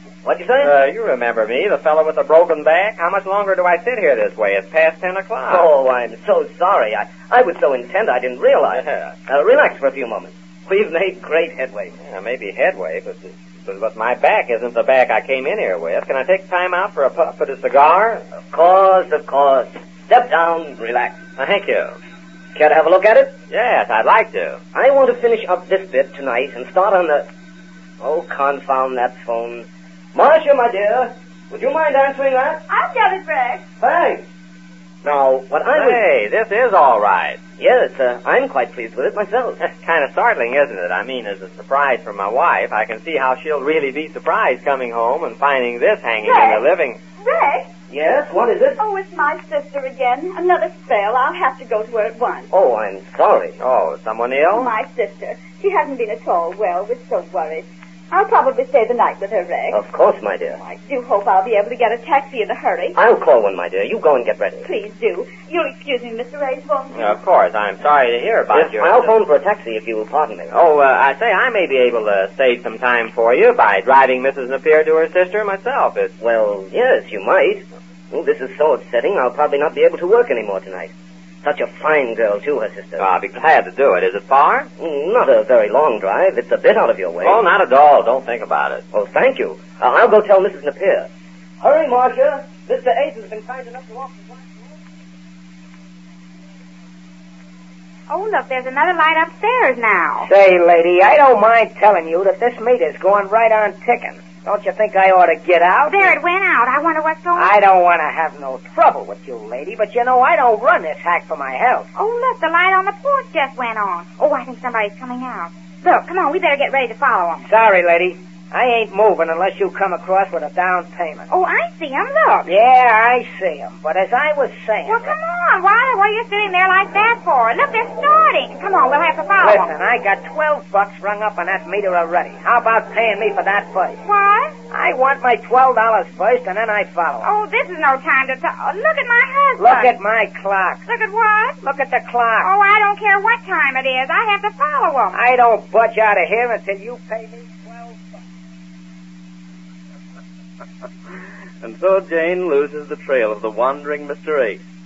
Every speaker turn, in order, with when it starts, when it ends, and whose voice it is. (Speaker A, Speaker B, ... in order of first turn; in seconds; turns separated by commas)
Speaker A: 0.2-0.7, Speaker B: 0.6-5.7, Speaker A: 5.5-11.9, Speaker B: 8.7-9.2, Speaker B: 12.0-18.2, Speaker A: 18.5-21.2, Speaker B: 21.4-21.9, Speaker A: 22.6-23.4, Speaker B: 23.5-24.6, Speaker A: 24.7-27.3, Speaker A: 28.0-32.6, Speaker C: 32.7-33.6, Speaker A: 33.8-34.2, Speaker A: 35.0-36.0, Speaker B: 35.7-37.4, Speaker A: 37.6-39.6, Speaker B: 39.6-47.0, Speaker C: 46.2-46.6, Speaker C: 47.2-47.7, Speaker A: 47.9-48.8, Speaker C: 48.8-52.5, Speaker A: 52.5-53.6, Speaker B: 53.6-54.7, Speaker C: 54.5-59.8, Speaker A: 59.7-60.6, Speaker C: 60.5-63.0, Speaker A: 63.0-64.7, Speaker C: 64.7-67.2, Speaker B: 66.9-69.1, Speaker A: 68.5-70.6, Speaker B: 70.5-76.2, Speaker A: 76.2-83.1, Speaker B: 83.0-84.7, Speaker A: 84.8-87.4, Speaker B: 87.2-88.8, Speaker A: 88.9-91.1, Speaker A: 91.6-94.5, Speaker D: 98.1-100.3, Speaker E: 100.2-106.2, Speaker D: 105.9-107.6, Speaker E: 107.3-111.9, Speaker D: 112.0-117.5, Speaker E: 117.5-121.3, Speaker D: 121.3-122.5, Speaker E: 122.5-125.2, Speaker D: 124.9-129.8, Speaker E: 129.4-134.0, Speaker D: 134.0-134.6, Speaker E: 134.7-137.3, Speaker D: 137.2-140.0, Speaker E: 139.6-140.8, Speaker D: 140.9-141.6, Speaker E: 141.6-142.5, Speaker D: 142.4-145.2, Speaker E: 145.1-148.2, Speaker F: 151.6-154.6